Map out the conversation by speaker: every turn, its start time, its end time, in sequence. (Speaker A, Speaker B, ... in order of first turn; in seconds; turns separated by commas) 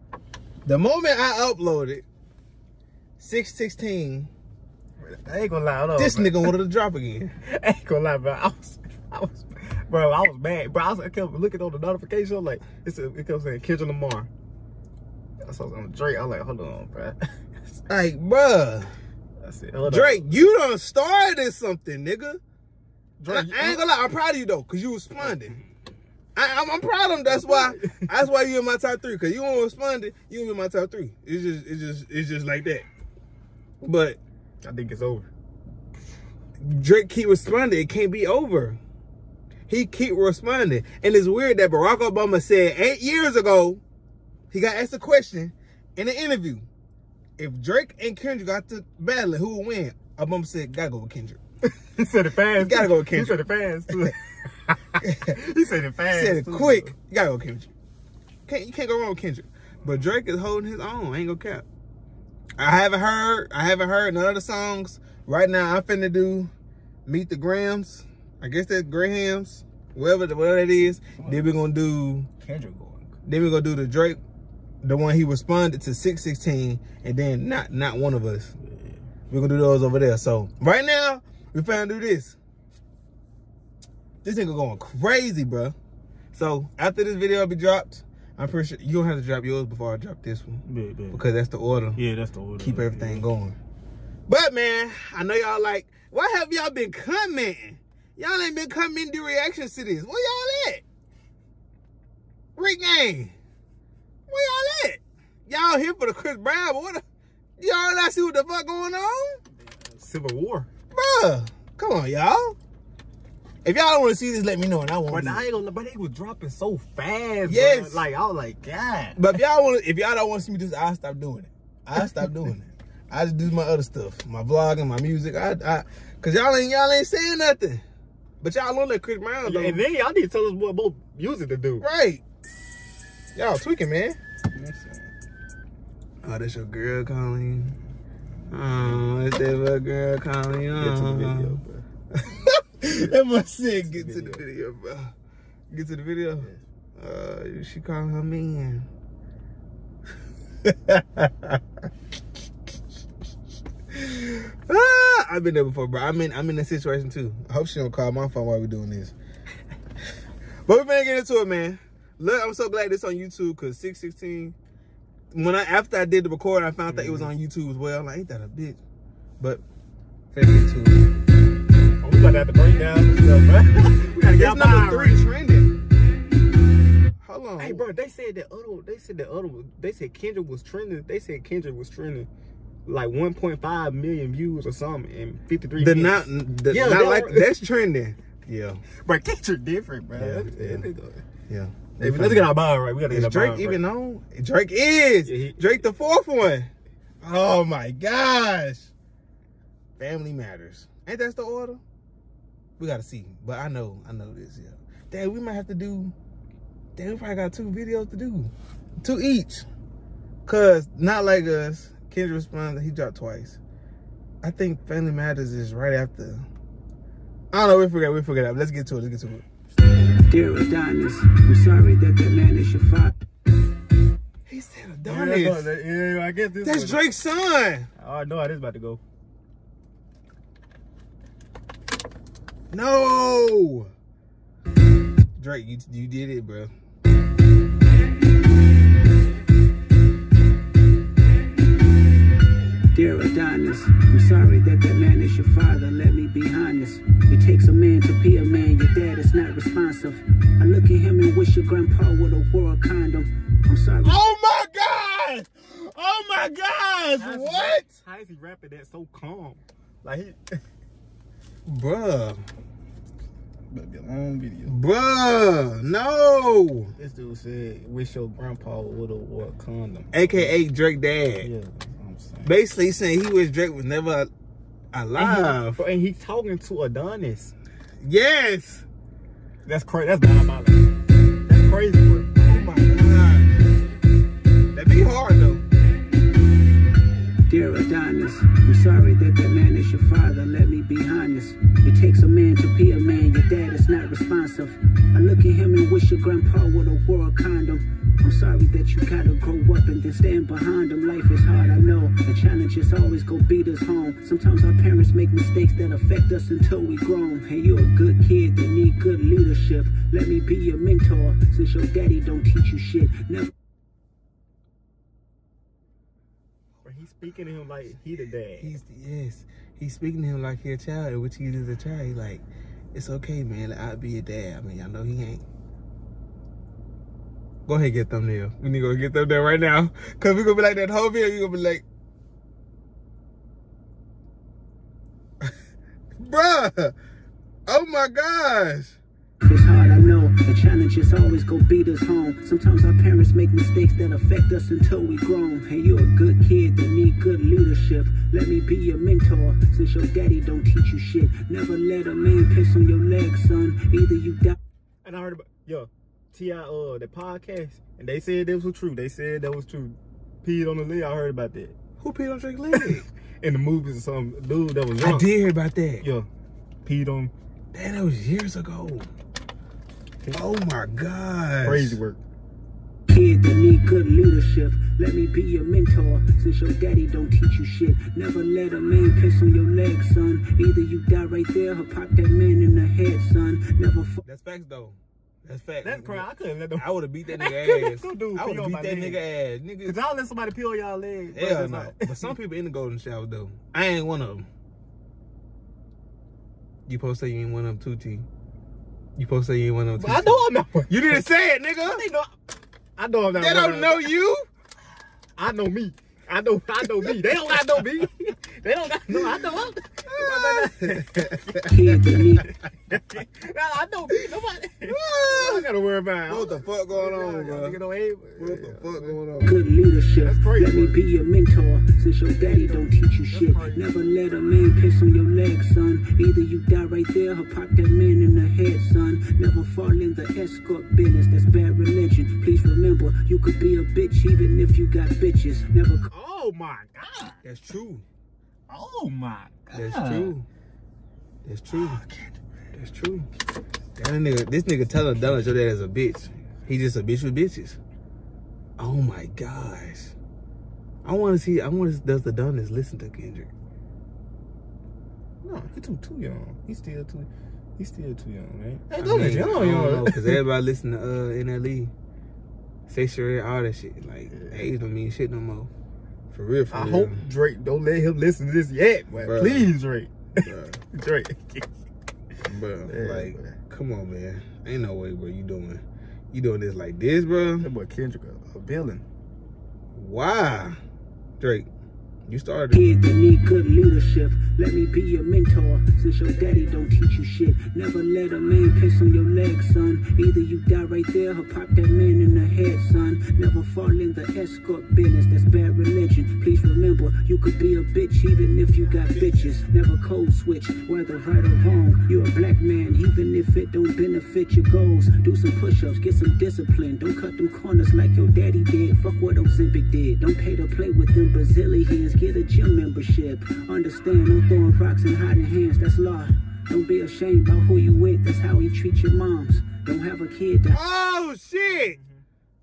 Speaker A: 0.7-2.0, Speaker A: 3.2-4.3, Speaker B: 5.0-6.5, Speaker A: 6.0-7.3, Speaker B: 7.4-14.3, Speaker B: 15.4-17.2, Speaker A: 17.9-18.9, Speaker B: 19.4-20.3, Speaker A: 19.9-22.4, Speaker B: 23.2-23.8, Speaker A: 23.3-25.6, Speaker A: 26.4-32.9, Speaker B: 27.3-28.1, Speaker A: 33.8-34.2, Speaker B: 34.6-35.3, Speaker A: 36.6-38.8, Speaker A: 39.7-43.8, Speaker A: 44.5-46.6, Speaker A: 47.4-51.4, Speaker B: 51.8-56.9, Speaker A: 52.5-54.1, Speaker A: 55.0-55.4, Speaker A: 56.1-57.7, Speaker A: 58.5-61.6, Speaker A: 62.6-66.5, Speaker A: 67.1-72.3, Speaker B: 71.2-71.5, Speaker B: 72.4-73.2, Speaker A: 73.2-74.2, Speaker A: 74.8-78.5, Speaker B: 78.6-79.0, Speaker A: 79.3-82.4, Speaker A: 84.2-85.8, Speaker A: 86.3-92.0, Speaker B: 90.7-91.2, Speaker B: 92.0-93.3, Speaker A: 92.6-93.6, Speaker A: 94.3-100.8, Speaker A: 102.6-103.3, Speaker A: 104.3-107.0, Speaker A: 107.6-109.4, Speaker B: 109.6-110.7, Speaker A: 110.9-112.6, Speaker A: 113.7-115.5, Speaker B: 115.1-119.3, Speaker A: 117.5-118.0, Speaker A: 119.2-127.8, Speaker A: 128.4-129.8, Speaker B: 129.4-131.8, Speaker A: 131.8-132.2, Speaker A: 133.3-134.2, Speaker B: 134.5-135.1, Speaker A: 136.2-137.8, Speaker A: 138.5-145.1, Speaker B: 140.8-141.8, Speaker B: 143.9-144.4, Speaker A: 145.7-148.9, Speaker A: 150.6-151.6, Speaker A: 153.9-159.2, Speaker A: 160.7-164.6, Speaker A: 165.3-168.8, Speaker B: 166.9-167.3, Speaker A: 170.3-171.1, Speaker B: 172.0-175.2, Speaker A: 174.3-175.8, Speaker A: 177.2-177.9, Speaker B: 177.6-182.3, Speaker B: 182.9-187.5, Speaker A: 185.8-188.8, Speaker B: 189.0-191.2, Speaker A: 190.1-190.9, Speaker A: 191.5-196.7, Speaker B: 192.0-193.8, Speaker B: 195.3-195.8, Speaker A: 197.2-198.9, Speaker A: 200.0-201.8, Speaker A: 202.8-206.1, Speaker A: 207.0-209.7, Speaker A: 210.5-213.6, Speaker A: 214.4-216.5, Speaker A: 217.5-219.4, Speaker C: 220.3-223.2, Speaker A: 224.5-225.7, Speaker B: 225.1-227.0, Speaker A: 226.6-227.9, Speaker B: 228.0-229.0, Speaker A: 232.7-233.9, Speaker A: 235.4-236.7, Speaker C: 242.9-254.2, Speaker A: 254.0-258.0, Speaker B: 257.2-260.6, Speaker A: 261.7-262.5, Speaker B: 263.7-264.8, Speaker A: 264.7-266.9, Speaker B: 267.0-270.5, Speaker A: 270.1-271.5, Speaker B: 271.4-272.5, Speaker A: 272.4-274.3, Speaker A: 274.9-275.8, Speaker B: 275.2-277.5, Speaker A: 278.0-278.9, Speaker B: 279.7-280.9, Speaker B: 281.5-282.3, Speaker A: 282.4-283.7, Speaker A: 284.7-285.6, Speaker C: 287.5-313.5, Speaker B: 316.8-318.8, Speaker A: 318.6-325.4, Speaker A: 327.7-331.9, Speaker A: 336.2-336.9, Speaker A: 337.7-339.0, Speaker C: 339.4-354.6, Speaker B: 355.0-361.8, Speaker A: 362.0-363.1, Speaker B: 362.7-365.3, Speaker A: 365.0-366.1, Speaker B: 366.0-366.3, Speaker B: 366.9-367.3, Speaker A: 367.7-369.1, Speaker A: 370.3-372.0, Speaker B: 371.6-372.2, Speaker C: 373.1-384.2, Speaker A: 384.2-390.0, Speaker B: 385.8-389.2, Speaker B: 389.9-392.3, Speaker A: 391.3-394.5, Speaker A: 396.9-398.3, Speaker A: 399.2-402.1, Speaker B: 400.0-401.2, Speaker B: 401.8-402.4, Speaker B: 403.0-404.1, Speaker A: 403.3-404.5, Speaker B: 405.4-419.2, Speaker A: 410.0-412.4, Speaker C: 411.6-412.5, Speaker A: 414.9-415.7, Speaker A: 416.3-417.8, Speaker A: 418.4-419.6, Speaker C: 419.4-436.1, Speaker B: 420.2-421.0, Speaker B: 422.4-424.2, Speaker B: 436.1-437.4, Speaker A: 437.4-438.1, Speaker B: 438.7-440.4, Speaker A: 439.7-440.5, Speaker A: 441.4-442.0, Speaker B: 441.7-442.3, Speaker A: 442.7-443.3, Speaker A: 444.0-447.8, Speaker A: 448.8-450.1, Speaker A: 451.0-453.5, Speaker B: 455.4-460.4, Speaker A: 459.0-461.9, Speaker A: 462.9-465.7, Speaker B: 464.3-464.7, Speaker A: 466.3-467.2, Speaker B: 466.7-471.7, Speaker A: 469.1-469.7, Speaker A: 470.4-470.8, Speaker A: 472.5-477.7, Speaker B: 472.9-473.6, Speaker B: 477.6-479.0, Speaker A: 479.9-480.8, Speaker A: 481.4-481.7, Speaker A: 482.3-483.0, Speaker C: 482.7-520.8, Speaker B: 486.4-486.9, Speaker A: 499.1-499.6, Speaker A: 520.7-522.0, Speaker B: 521.7-522.2